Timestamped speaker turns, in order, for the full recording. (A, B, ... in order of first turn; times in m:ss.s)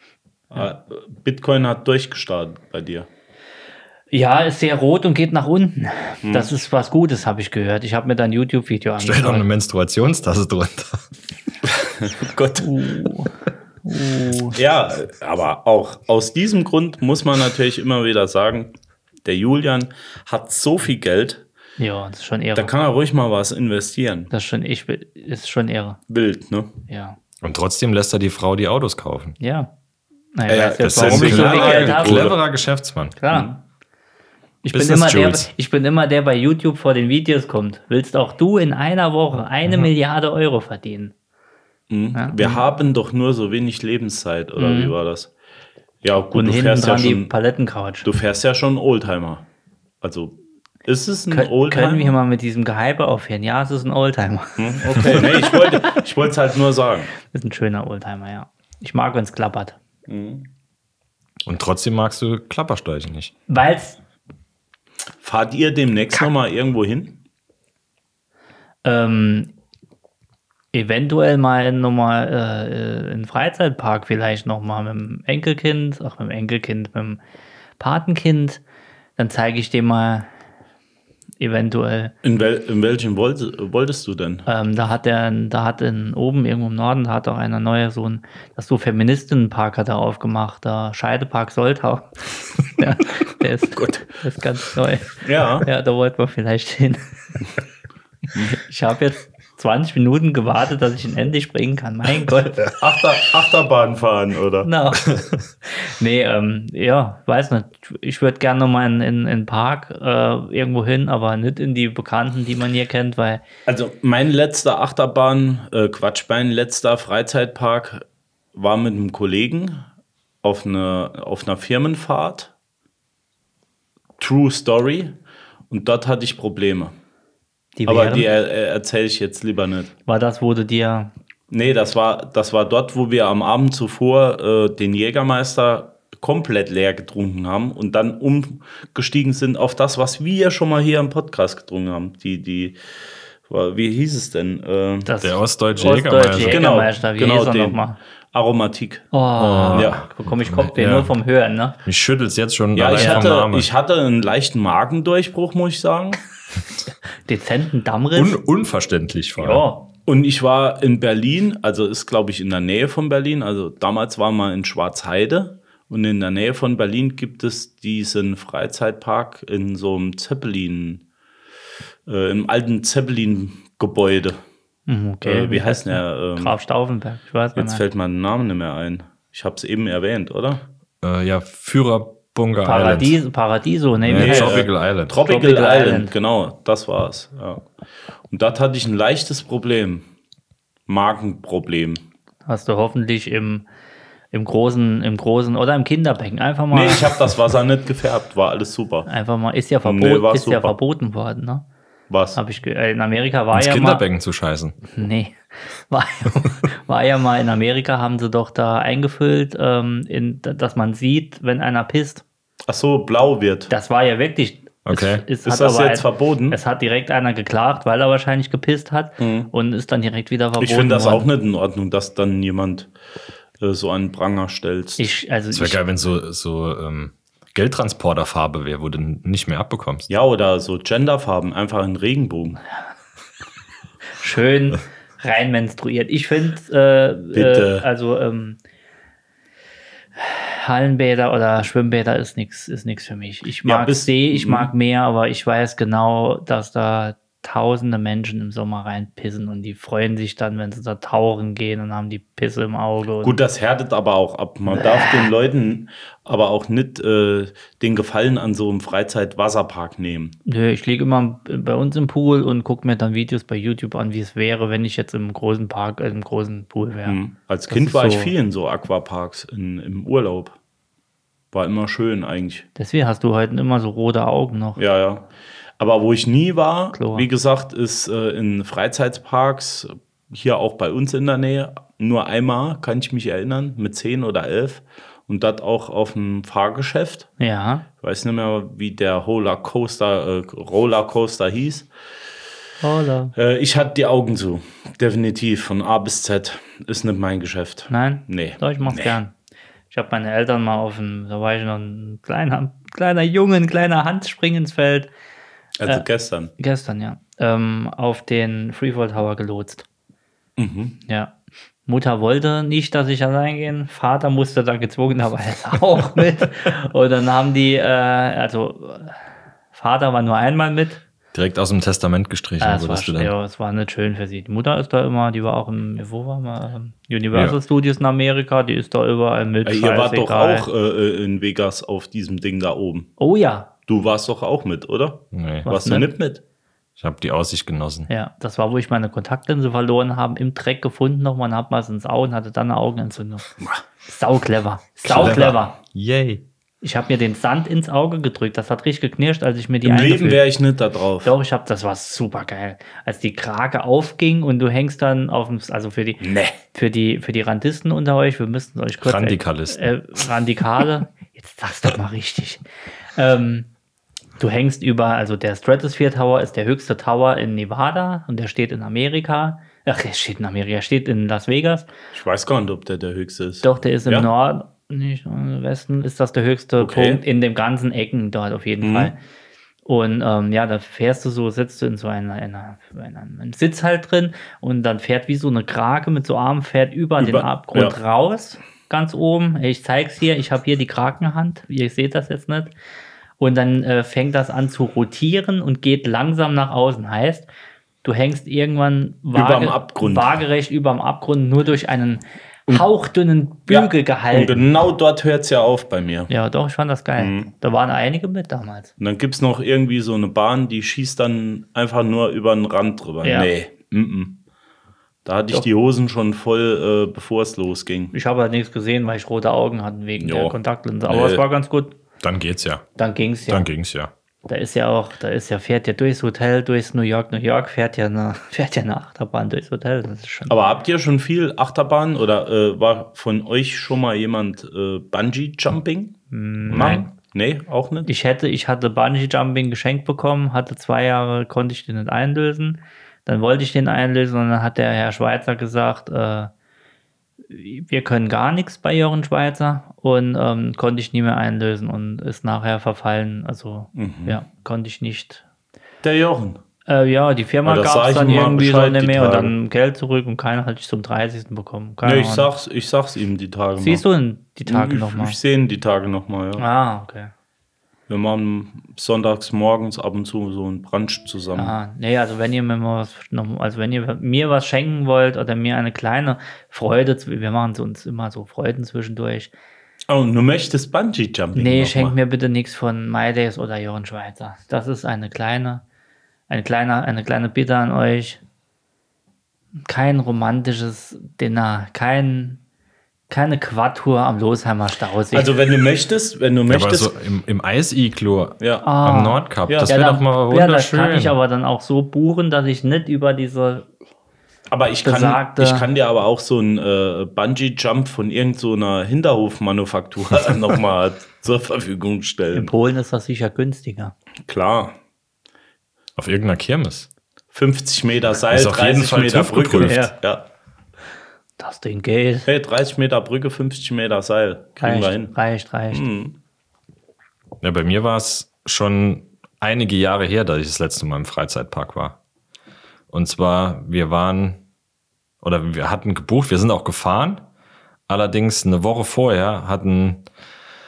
0:00.5-0:03.1 A
0:04.1-0:09.5 B
0:06.2-0:06.5 A
0:09.0-0:11.0 C
0:11.6-0:13.1 A
0:12.6-0:13.3 B
0:13.8-0:14.6 B
0:14.5-0:21.4 A
0:21.8-0:22.7 B
0:22.6-0:24.3 A
0:24.3-0:26.0 B
0:26.1-0:26.7 A
0:26.9-0:27.2 B
0:27.4-0:29.4 C
0:29.4-0:29.7 B
0:30.4-0:32.3 B
0:30.5-0:32.4 A
0:30.8-0:33.2 C
0:33.2-0:33.5 B
0:33.3-0:33.6 A
0:34.6-0:41.1 B
0:34.7-0:35.5 C
0:41.9-0:45.3 A
0:42.2-0:42.6 B
0:44.6-0:44.9 B
0:46.0-0:47.3 A
0:46.3-0:48.1 B
0:48.0-0:49.4 A
0:50.0-0:52.2 A
0:51.3-0:56.0 B
0:54.6-0:57.1 A
0:57.2-0:59.8 B
1:00.1-1:00.5 A
1:01.4-1:03.3 C
1:03.5-1:04.0 B
1:05.2-1:07.2 A
1:08.8-1:09.5 B
1:10.7-1:17.2 B
1:17.8-1:18.6 B
1:19.2-1:20.3 B
1:21.4-1:22.1 B
1:22.2-1:24.5 A
1:24.5-1:37.1 B
1:33.7-1:34.1 A
1:35.2-1:35.7 A
1:38.5-1:42.7 B
1:42.7-1:44.7 A
1:44.6-1:53.4 B
1:53.7-1:58.0 A
1:58.6-1:59.8 A
2:00.4-2:02.5 A
2:04.2-2:05.1 A
2:05.7-2:06.9 A
2:07.8-2:08.3 B
2:07.9-2:09.9 A
2:10.1-2:11.1 B
2:11.5-2:22.8 A
2:23.5-2:25.1 A
2:25.1-2:28.0 B
2:25.2-2:26.6 C
2:26.4-2:29.1 A
2:29.1-2:31.8 B
2:29.4-2:31.1 C
2:29.7-2:30.0 A
2:31.8-2:33.7 C
2:32.8-2:36.2 A
2:33.0-2:33.3 B
2:37.2-2:38.4 B
2:38.2-2:39.6 C
2:39.4-2:39.9 B
2:40.1-2:51.0 A
2:52.1-2:54.4 A
2:54.9-2:57.8 B
2:55.2-2:56.6 A
2:57.6-3:00.6 A
3:01.0-3:03.2 C
3:02.6-3:04.7 B
3:04.0-3:05.2 C
3:04.2-3:07.7 A
3:05.2-3:06.1 B
3:08.3-3:10.0 A
3:10.9-3:12.0 A
3:12.5-3:13.7 B
3:14.3-3:17.1 B
3:16.7-3:19.1 A
3:19.1-3:21.6 B
3:19.8-3:20.7 A
3:22.1-3:22.4 A
3:22.4-3:24.0 B
3:23.5-3:24.8 C
3:24.9-3:32.2 B
3:32.7-3:33.7 A
3:33.7-3:41.3 B
3:34.9-3:35.2 C
3:35.4-3:36.6 A
3:39.2-3:39.5 A
3:40.6-3:42.9 A
3:43.6-3:45.1 A
3:45.0-3:45.8 B
3:45.5-3:50.1 C
3:50.1-3:52.6 A
3:54.2-3:58.6 B
3:57.3-3:57.9 A
4:00.2-4:13.4 B
4:03.6-4:04.7 A
4:13.2-4:20.4 A
4:14.8-4:15.2 B
4:20.5-4:27.2 B
4:27.1-4:30.6 A
4:27.7-4:28.3 B
4:31.5-4:32.7 A
4:32.8-4:34.8 B
4:34.8-4:35.3 A
4:35.8-4:47.3 A
4:36.9-4:37.3 B
4:47.4-4:47.8 B
4:48.0-4:51.9 A
4:52.8-4:53.4 B
4:53.4-4:59.2 A
4:57.9-4:59.3 B
4:59.9-5:05.1 B
5:05.8-5:06.5 A
5:06.6-5:09.8 B
5:10.6-5:11.0 A
5:11.1-5:11.3 B
5:11.9-5:19.2 B
5:19.7-5:21.0 B
5:21.3-5:23.3 C
5:22.6-5:30.7 B
5:29.6-5:33.1 A
5:33.2-5:33.7 B
5:33.9-5:36.4 A
5:35.3-5:35.7 C
5:35.7-5:36.1 B
5:37.0-5:38.1 C
5:38.1-5:43.5 B
5:44.1-5:45.8 B
5:45.1-5:46.4 C
5:46.8-5:50.4 B
5:49.8-5:51.3 A
5:51.2-6:02.6 B
5:56.2-5:56.6 A
5:59.0-5:59.8 C
6:03.2-6:03.7 B
6:04.4-6:11.9 B
6:12.1-6:14.3 A
6:13.6-6:19.2 B
6:16.8-6:17.2 A
6:18.8-6:19.1 A
6:19.9-6:32.7 B
6:27.2-6:28.0 A
6:33.4-6:37.5 B
6:38.0-6:44.6 B
6:39.3-6:40.4 A
6:43.7-6:46.3 A
6:46.3-6:48.9 B
6:47.2-6:47.5 A
6:49.0-6:54.4 A
6:53.2-6:53.5 B
6:55.2-6:58.1 A
6:58.1-7:02.0 B
7:00.2-7:00.6 A
7:01.1-7:01.4 A
7:02.2-7:02.8 C
7:03.0-7:03.7 B
7:03.5-7:04.1 C
7:04.5-7:10.6 B
7:10.5-7:18.1 A
7:16.3-7:17.1 B
7:18.1-7:26.5 B
7:27.5-7:35.4 B
7:34.0-7:34.4 A
7:36.0-7:36.6 A
7:36.9-7:42.5 B
7:37.6-7:39.5 A
7:42.0-7:44.0 A
7:43.8-7:45.4 B
7:44.7-7:46.6 A
7:46.6-7:47.3 B
7:48.1-7:51.8 A
7:51.6-7:59.5 B
8:00.1-8:02.2 A
8:01.6-8:05.8 B
8:06.5-8:08.4 B
8:09.8-8:12.6 B
8:13.3-8:15.5 B
8:15.3-8:17.1 A
8:16.7-8:21.4 C
8:18.6-8:18.9 A
8:18.8-8:23.9 B
8:19.7-8:20.0 A
8:24.7-8:32.7 A
8:25.0-8:25.9 B
8:32.5-8:34.1 B
8:34.5-8:35.0 A
8:36.2-8:37.1 C
8:37.5-8:40.4 A
8:38.5-8:40.0 C
8:39.8-8:40.1 B
8:41.6-8:42.5 B
8:42.5-8:45.4 A
8:44.8-8:46.0 B
8:45.9-8:46.4 A
8:47.6-8:52.2 C
8:53.1-8:54.6 C
8:55.4-8:57.4 C
8:58.1-9:00.3 C